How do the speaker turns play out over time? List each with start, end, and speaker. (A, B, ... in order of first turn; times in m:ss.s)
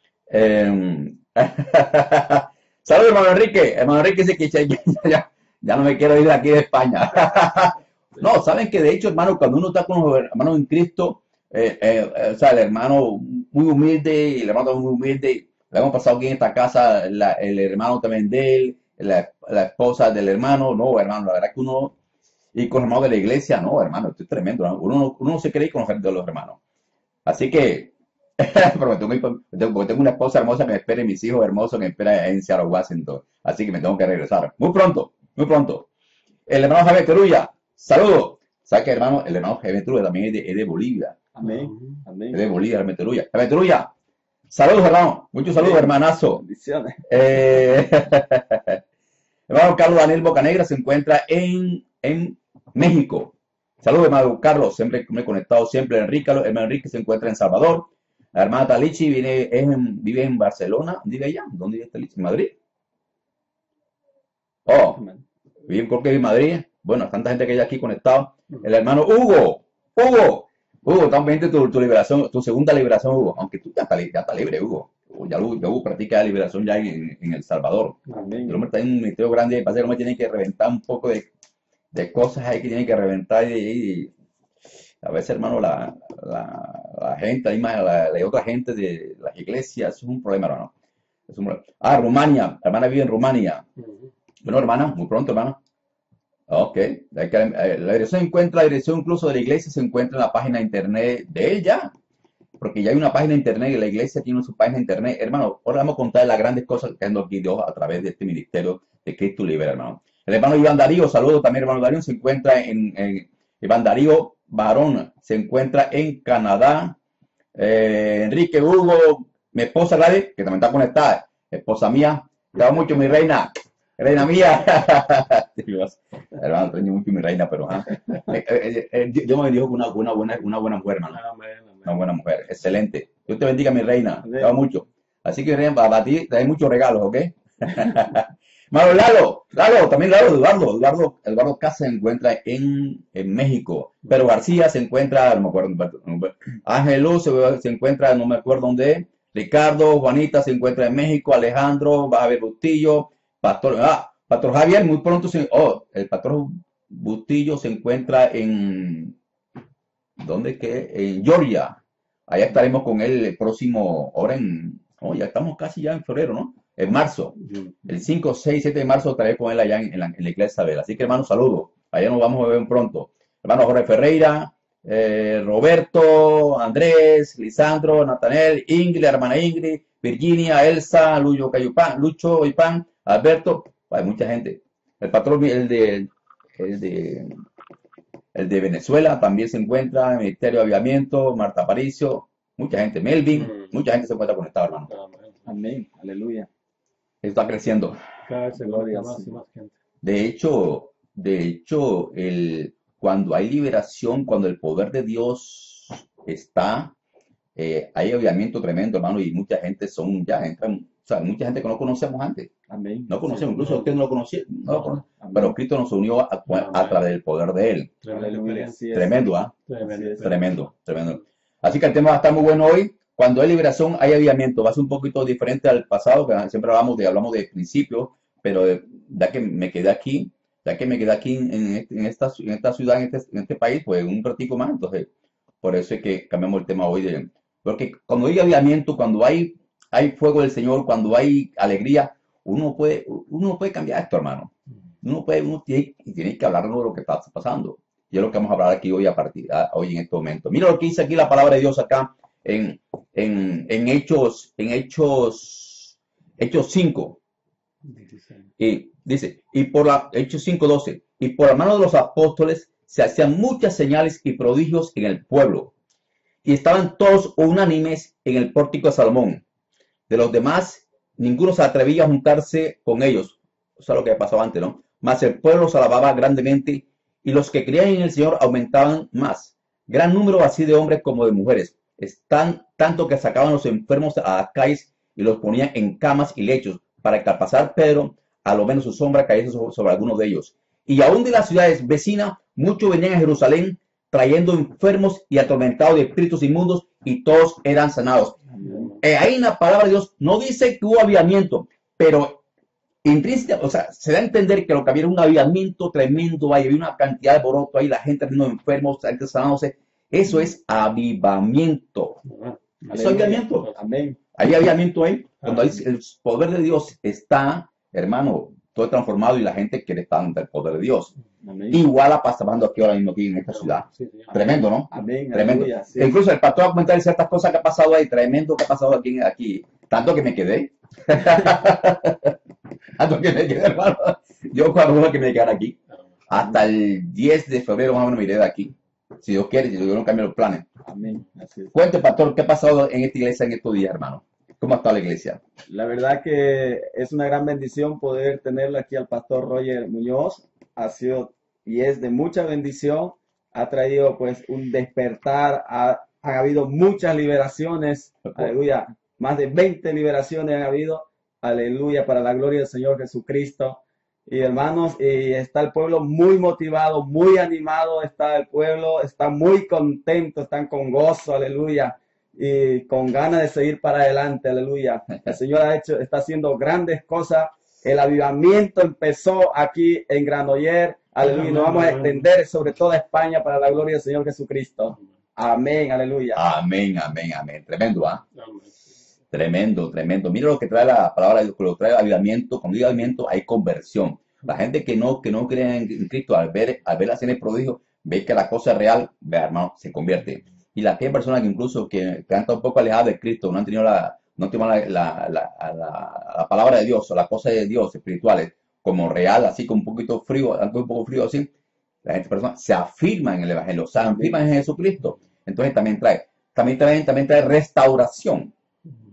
0:00.3-0:21.9 A
0:22.6-0:26.6 A
0:27.3-0:35.9 A
0:36.5-0:41.2 A
0:41.3-0:42.4 B
0:41.4-0:42.0 C
0:42.3-0:43.9 A
0:44.5-0:46.4 A
0:45.5-0:47.1 B
0:47.1-0:48.8 A
0:49.5-1:02.5 A
1:04.7-1:05.0 A
1:05.0-1:05.2 B
1:05.7-1:21.3 A
1:18.1-1:18.7 B
1:21.9-1:24.1 A
1:25.0-1:30.7 A
1:31.3-1:33.6 A
1:33.8-1:34.1 C
1:34.4-1:35.6 A
1:36.5-1:41.9 A
1:42.6-1:57.0 A
1:57.6-2:11.2 A
2:11.1-2:12.0 C
2:11.8-2:39.2 A
2:14.2-2:14.6 B
2:40.2-2:41.8 A
2:42.3-2:47.4 A
2:47.9-3:07.4 A
3:08.4-3:14.9 A
3:13.3-3:13.7 C
3:14.9-3:15.5 C
3:15.4-3:16.5 B
3:17.2-3:18.0 A
3:18.3-3:19.8 C
3:18.6-3:19.4 B
3:20.0-3:26.9 A
3:27.6-3:32.5 A
3:32.7-3:33.5 B
3:33.1-3:37.9 A
3:33.3-3:33.9 C
3:34.7-3:35.0 C
3:35.2-3:35.6 B
3:36.5-3:37.0 C
3:38.0-3:38.8 C
3:38.1-3:39.3 B
3:38.9-3:39.5 A
3:39.7-3:40.4 C
3:39.8-3:40.3 B
3:40.2-3:55.1 A
3:55.6-4:04.5 A
4:05.0-4:17.2 A
4:17.8-4:18.5 C
4:18.6-4:25.7 A
4:26.4-4:29.4 A
4:30.1-4:58.4 A
4:58.6-4:58.9 B
4:59.0-5:02.4 A
5:03.0-5:12.2 A
5:12.3-5:13.8 C
5:12.9-5:14.2 B
5:13.0-5:13.7 A
5:14.4-5:21.1 A
5:15.4-5:15.7 C
5:21.4-5:21.8 B
5:21.7-5:32.3 A
5:23.5-5:24.3 C
5:24.3-5:26.2 B
5:33.0-5:35.8 A
5:36.3-5:40.6 A
5:40.8-5:41.7 B
5:41.7-5:45.4 A
5:45.7-6:26.4 B
6:21.2-6:22.3 C
6:26.3-6:28.2 A
6:28.3-6:29.0 C
6:29.3-6:51.5 A
6:52.0-6:58.5 A